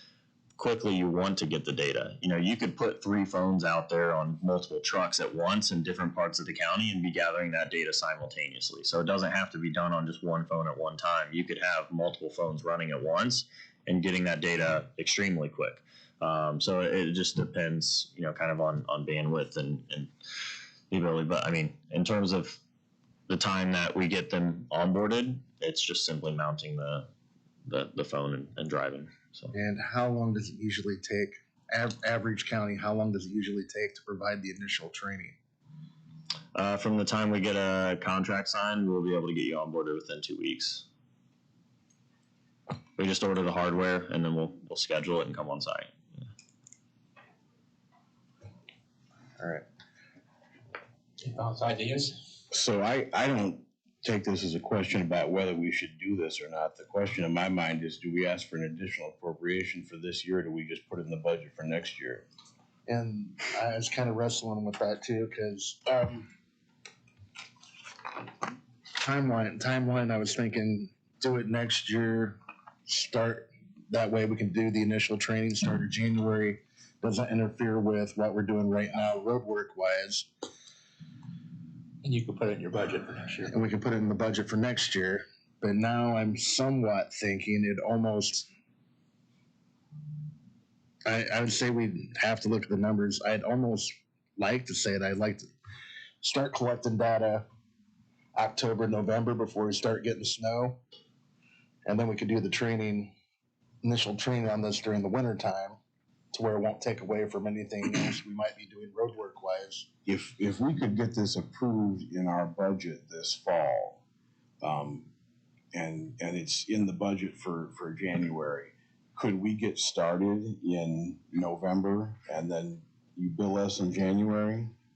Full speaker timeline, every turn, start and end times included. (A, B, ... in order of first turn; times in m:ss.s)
0:00.6-0:20.1 A
0:20.9-0:22.6 A
0:23.3-0:27.1 A
0:27.7-0:29.5 A
0:29.5-0:35.4 B
0:36.6-0:40.8 A
0:43.0-0:45.9 A
0:49.4-0:49.6 B
0:51.2-0:52.1 C
0:52.5-1:02.3 D
1:02.9-1:06.3 B
1:09.0-1:20.3 B
1:22.0-1:23.5 C
1:23.4-1:28.5 B
1:31.0-1:35.5 B
1:36.2-1:37.5 B
1:38.3-1:40.8 B
1:41.8-1:43.1 B
1:43.8-1:45.8 B
1:46.3-1:49.9 B
1:50.1-1:54.0 D
1:54.6-1:55.1 D
1:55.7-2:04.7 D